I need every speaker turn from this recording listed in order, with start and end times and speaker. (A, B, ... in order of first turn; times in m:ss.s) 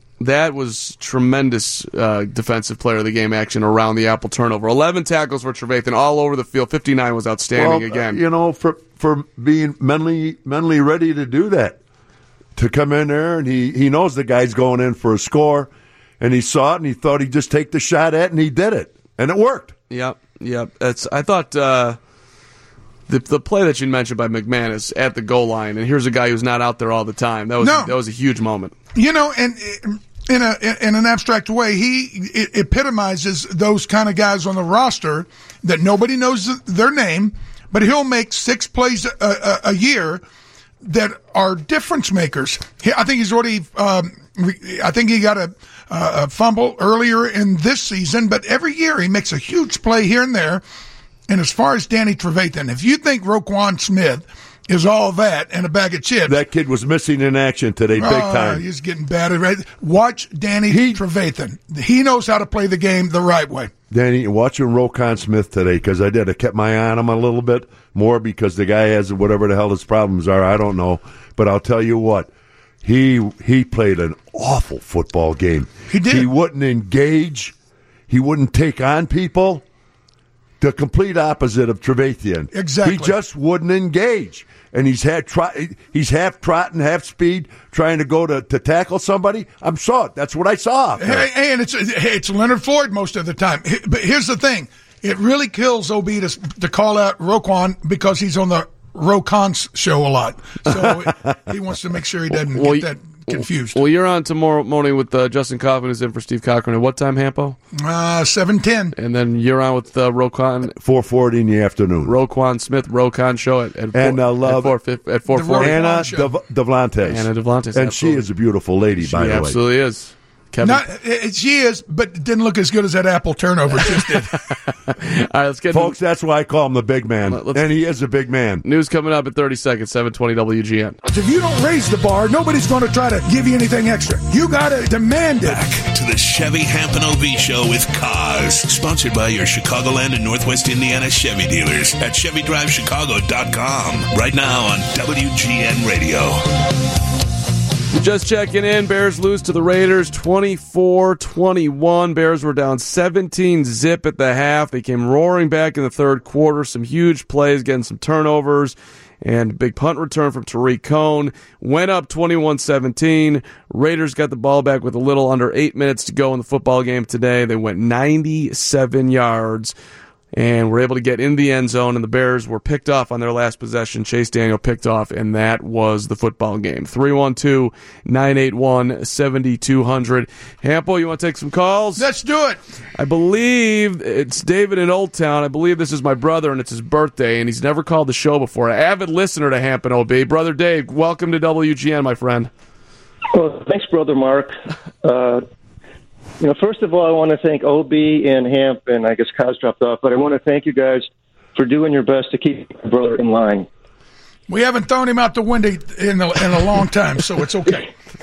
0:00.2-0:08.2 A
0:07.5-0:11.8 B
0:12.6-0:19.7 B
0:19.9-0:22.0 A
0:23.1-0:28.7 A
0:27.6-0:27.9 C
0:28.9-0:40.2 C
0:40.8-0:50.6 C
0:51.3-0:56.4 C
0:56.2-0:58.6 B
0:58.0-1:03.7 C
1:00.7-1:01.0 B
1:03.9-1:12.3 B
1:12.8-1:17.5 B
1:15.9-1:16.3 C
1:18.1-1:19.6 B
1:20.6-1:31.2 B
1:22.5-1:23.1 C
1:31.0-1:43.8 C
1:40.8-1:41.1 B
1:42.5-1:47.6 A
1:47.8-1:48.9 C
1:49.0-1:50.7 A
1:50.8-1:52.1 B
1:52.0-1:55.8 A
1:53.9-1:54.7 B
1:55.3-1:56.3 C
1:55.5-1:59.6 B
1:57.1-1:58.2 A
1:59.0-2:00.8 A
2:00.6-2:04.4 C
2:04.9-2:05.9 A
2:05.7-2:08.6 B
2:07.3-2:07.6 A
2:08.6-2:11.0 A
2:11.0-2:15.8 C
2:15.4-2:26.4 D
2:27.9-2:49.7 A
2:50.3-3:02.1 A
3:02.0-3:02.6 C
3:03.0-3:12.5 A
3:13.3-3:15.4 E
3:16.4-3:23.7 E
3:24.5-3:27.9 C